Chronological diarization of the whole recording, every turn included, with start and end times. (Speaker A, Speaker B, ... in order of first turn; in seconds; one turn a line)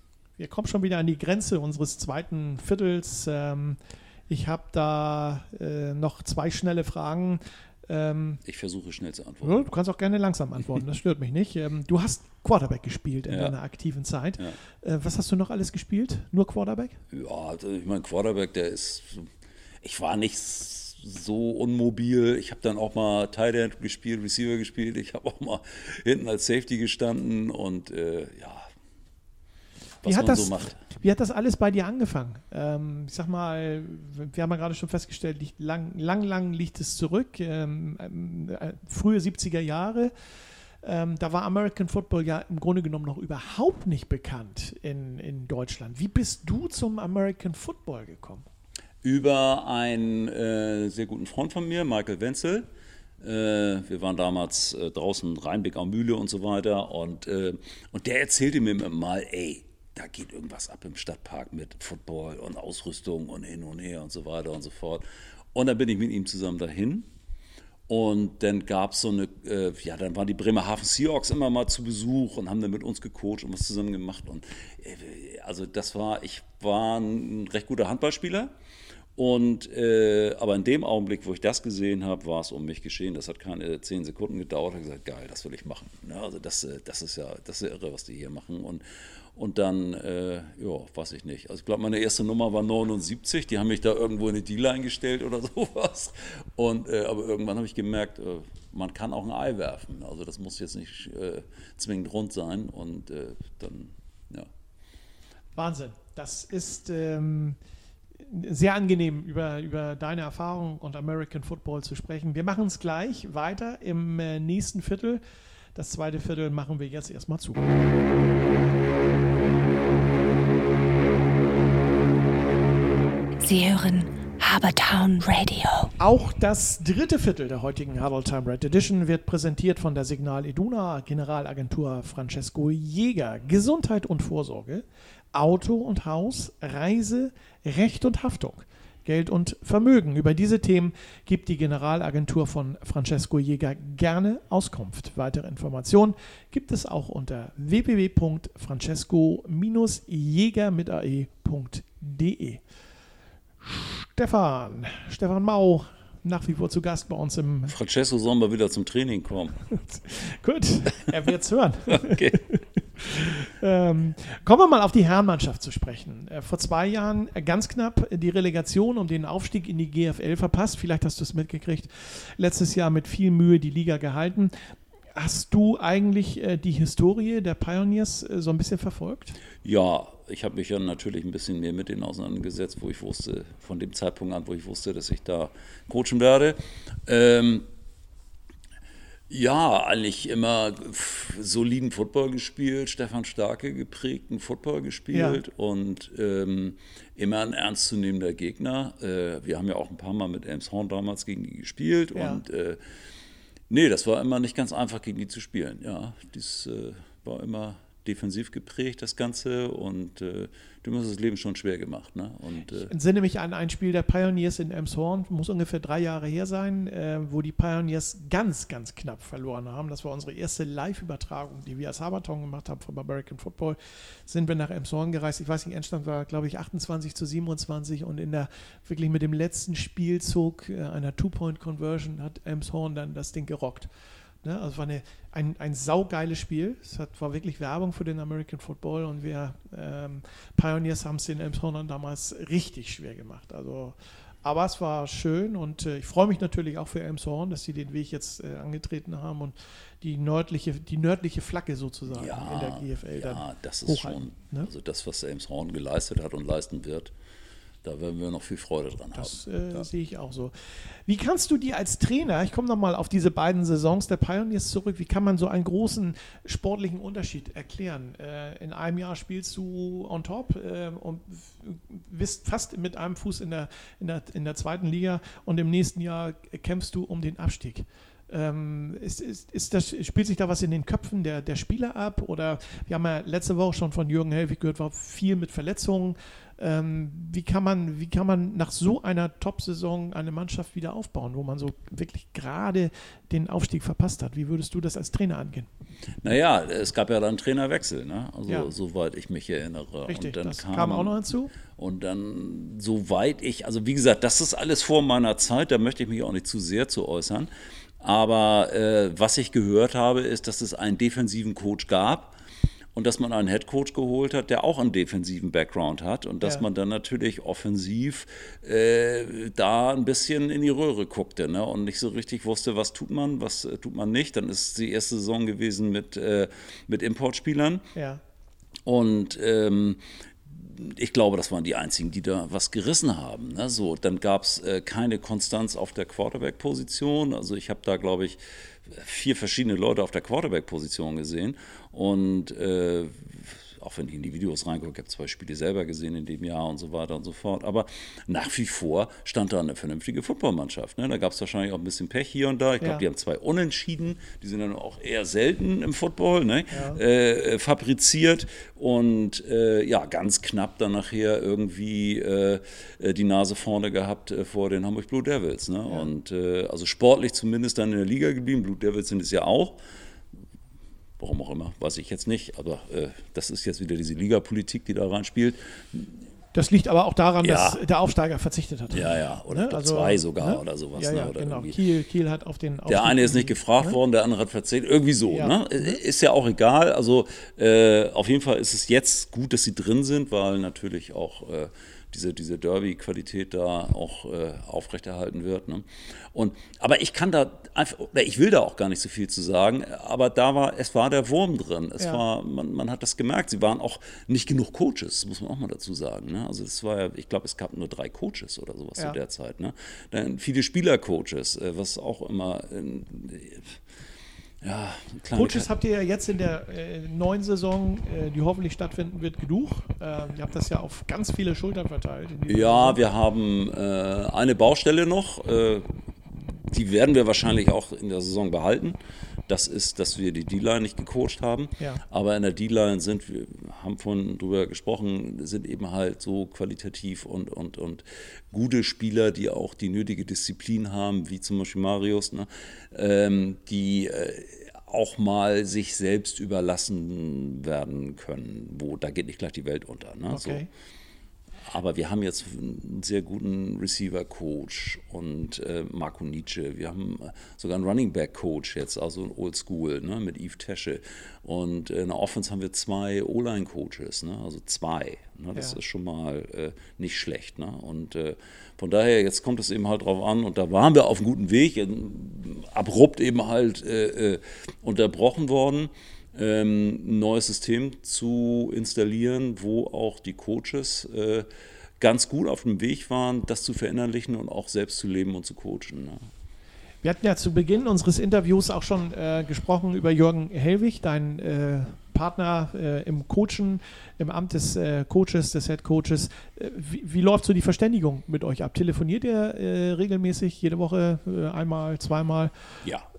Speaker A: 0.4-8.4
Speaker B: 8.4-9.7
Speaker A: 9.4-17.0
Speaker B: 13.3-13.5
Speaker B: 17.1-19.3
Speaker B: 19.8-28.7
Speaker B: 30.0-30.8
Speaker A: 30.0-40.1
Speaker A: 40.8-48.4
Speaker B: 49.0-52.7
Speaker B: 53.2-67.1
Speaker B: 67.9-78.5
Speaker B: 79.2-104.5
Speaker A: 105.5-107.6
Speaker A: 108.2-115.2
Speaker A: 115.7-117.6
Speaker C: 123.4-125.9
Speaker A: 126.0-152.6
Speaker A: 153.6-157.7
Speaker B: 157.7-159.6
Speaker A: 159.7-179.4
Speaker B: 161.9-162.4
Speaker B: 179.6-187.7
Speaker B: 189.3-202.8
Speaker A: 195.1-195.4
Speaker A: 202.1-202.4
Speaker B: 203.7-212.9
Speaker A: 212.8-233.9
Speaker A: 234.4-254.7
Speaker B: 252.1-257.1
Speaker B: 257.8-259.9
Speaker A: 259.1-295.7
Speaker B: 296.2-312.3
Speaker A: 298.5-298.7
Speaker A: 300.1-301.6
Speaker B: 312.9-327.9
Speaker A: 327.9-328.2
Speaker B: 328.8-369.8
Speaker A: 356.7-357.0
Speaker B: 371.2-376.2
Speaker A: 376.5-384.0
Speaker B: 377.4-377.8
Speaker B: 378.9-381.8
Speaker B: 382.9-413.8
Speaker A: 385.3-386.0
Speaker B: 414.6-415.7
Speaker A: 415.3-423.0
Speaker B: 422.5-450.6
Speaker A: 450.3-450.7
Speaker B: 451.6-481.5
Speaker B: 482.0-486.3
Speaker A: 487.0-502.7
Speaker B: 502.8-503.1